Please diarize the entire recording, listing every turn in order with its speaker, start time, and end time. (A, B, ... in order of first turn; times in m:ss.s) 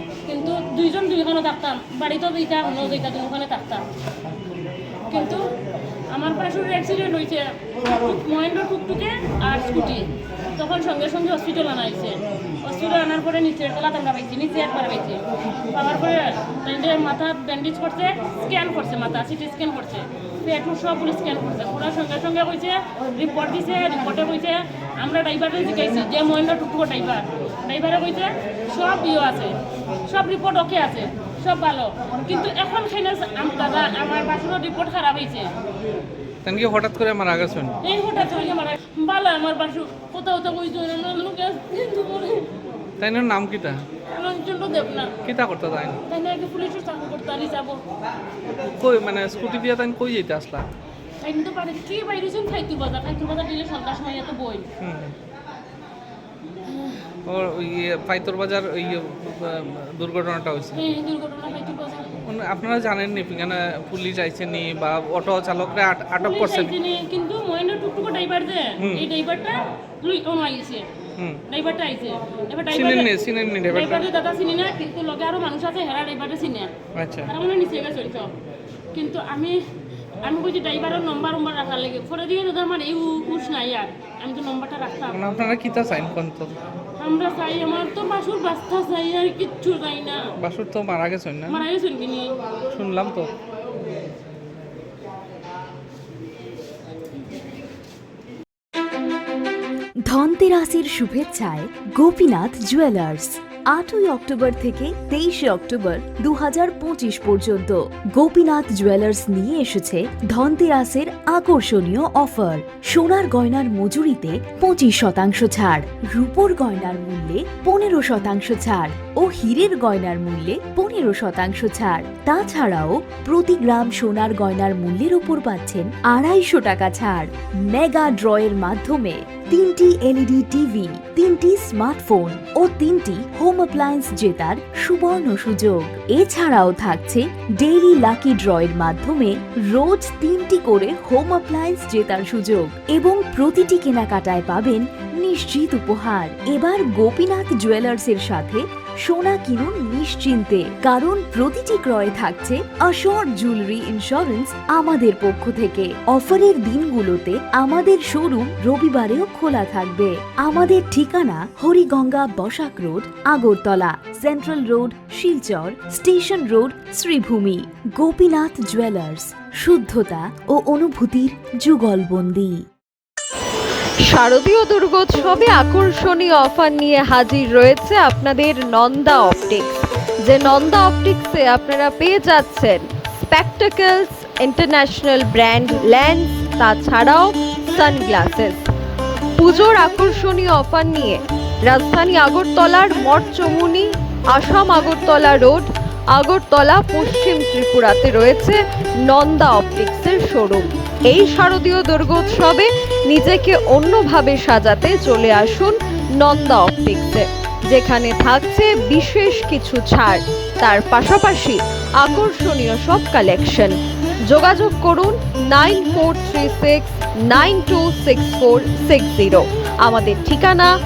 0:00.2-0:03.8 A
0:05.1-0:05.4 A
0:06.1-0:29.5 A
0:30.0-0:35.5 A
0:36.4-0:37.8 B
0:37.8-0:42.5 A
0:43.0-0:43.8 B
0:44.1-0:45.1 A
0:45.2-0:46.0 B
0:46.0-0:47.8 A
0:48.6-0:50.7 B
0:51.2-0:54.6 A
0:54.8-0:55.1 B
0:57.2-1:00.8 B
1:00.7-1:02.1 A
1:02.2-1:06.7 B
1:06.2-1:10.9 A
1:08.8-1:09.1 B
1:11.5-1:13.1 A
1:12.7-1:14.0 B
1:13.7-1:16.7 A
1:16.9-1:17.3 B
1:17.3-1:18.3 A
1:18.9-1:19.6 A
1:20.2-1:25.2 A
1:25.1-1:26.6 B
1:27.0-1:30.2 A
1:30.4-1:31.6 B
1:31.5-1:32.3 A
1:32.7-1:33.3 B
1:40.1-2:52.6 C
2:54.0-2:59.8 D
3:00.3-3:08.7 D
3:09.4-3:33.7 D
3:34.3-3:40.7 D